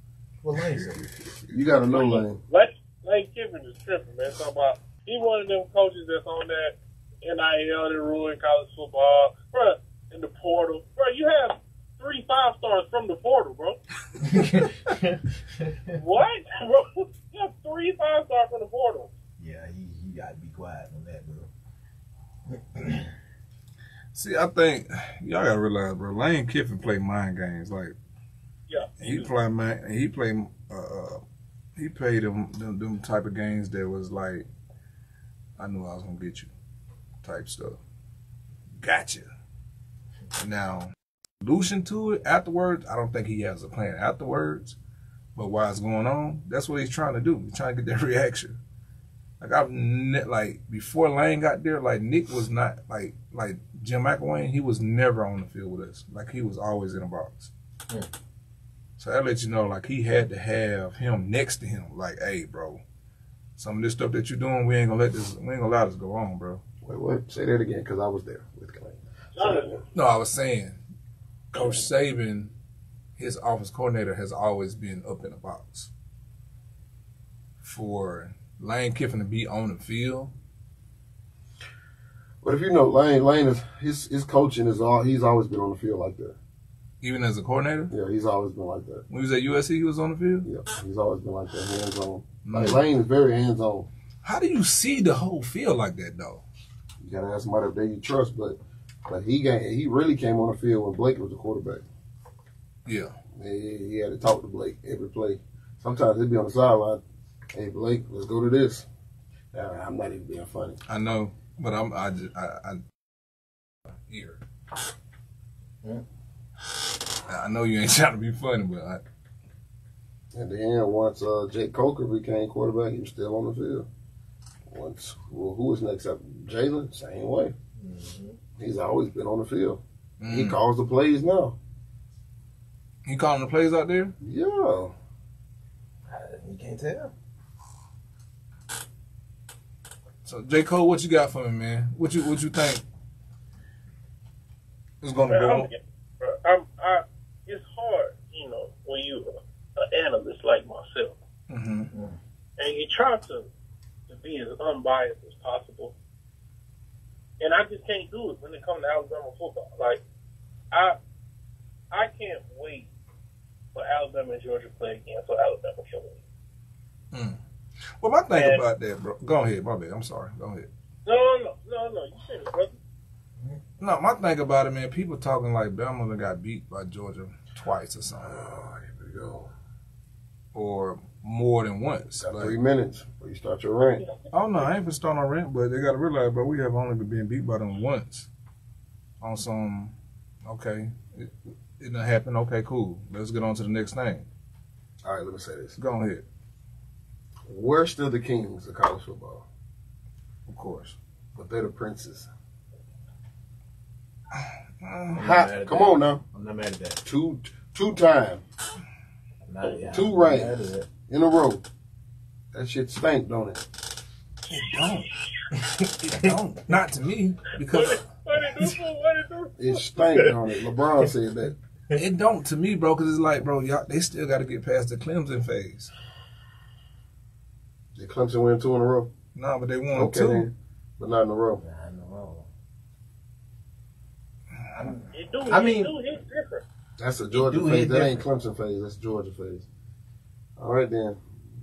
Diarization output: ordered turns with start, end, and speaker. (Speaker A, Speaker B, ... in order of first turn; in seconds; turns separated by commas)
Speaker A: 0.4-1.2, Speaker B: 0.6-1.7, Speaker C: 1.5-2.4, Speaker D: 1.9-13.8, Speaker A: 14.2-15.9, Speaker D: 15.9-19.1, Speaker A: 19.4-21.5, Speaker A: 22.5-23.1, Speaker B: 24.1-27.9, Speaker D: 28.7-29.3, Speaker B: 29.0-31.2, Speaker B: 31.8-34.5, Speaker B: 35.6-36.5, Speaker B: 37.2-37.8, Speaker B: 38.8-39.3, Speaker B: 40.4-44.8, Speaker B: 45.4-48.6, Speaker B: 49.4-57.5, Speaker B: 59.0-62.8, Speaker B: 63.6-66.6, Speaker C: 66.8-69.8, Speaker D: 69.3-69.8, Speaker B: 69.9-70.8, Speaker B: 71.5-72.5, Speaker B: 73.2-75.9, Speaker B: 77.6-80.3, Speaker C: 82.4-86.4, Speaker B: 87.0-87.9, Speaker C: 87.9-89.0, Speaker B: 89.1-90.5, Speaker C: 90.5-93.9, Speaker B: 92.5-92.8, Speaker B: 94.2-96.4, Speaker C: 97.0-101.8, Speaker B: 102.9-103.2, Speaker C: 103.3-107.0, Speaker C: 107.5-108.9, Speaker C: 109.5-110.8, Speaker B: 110.9-112.8, Speaker B: 114.1-114.4, Speaker B: 117.3-119.0, Speaker C: 120.3-123.9, Speaker C: 124.7-127.5, Speaker A: 127.8-128.4, Speaker C: 128.6-131.6, Speaker B: 130.2-130.6, Speaker B: 133.1-134.1, Speaker C: 134.2-134.9, Speaker A: 136.1-137.1, Speaker B: 140.2-142.8, Speaker B: 145.0-145.7, Speaker D: 145.3-151.2, Speaker B: 151.5-151.9, Speaker A: 151.9-152.2, Speaker D: 152.6-153.5, Speaker D: 154.1-155.9, Speaker D: 157.4-160.0, Speaker D: 160.7-161.0, Speaker D: 161.9-162.9, Speaker D: 163.7-166.2, Speaker B: 167.1-167.4, Speaker B: 168.0-170.7, Speaker D: 168.3-168.7, Speaker D: 171.1-172.8, Speaker B: 173.8-178.4, Speaker C: 178.2-179.5, Speaker B: 180.5-182.6, Speaker C: 182.2-184.1, Speaker B: 184.3-188.3, Speaker B: 189.2-194.3, Speaker C: 195.0-195.8, Speaker B: 195.8-196.2, Speaker C: 197.5-199.5, Speaker B: 200.5-201.0, Speaker C: 201.3-202.3, Speaker B: 204.4-205.2, Speaker A: 205.1-207.0, Speaker C: 205.2-206.2, Speaker C: 207.0-208.4, Speaker A: 209.5-210.9, Speaker C: 209.9-211.6, Speaker C: 212.5-213.7, Speaker B: 214.5-215.2, Speaker A: 215.5-216.3, Speaker B: 216.0-218.7, Speaker D: 217.7-219.5, Speaker C: 219.6-221.6, Speaker B: 221.9-225.9, Speaker C: 227.9-229.1, Speaker B: 229.3-230.5, Speaker C: 229.9-231.6, Speaker A: 231.6-232.5, Speaker B: 234.7-234.9, Speaker A: 234.7-235.9, Speaker D: 235.1-236.6, Speaker C: 237.0-239.7, Speaker A: 237.3-238.2, Speaker C: 240.6-241.2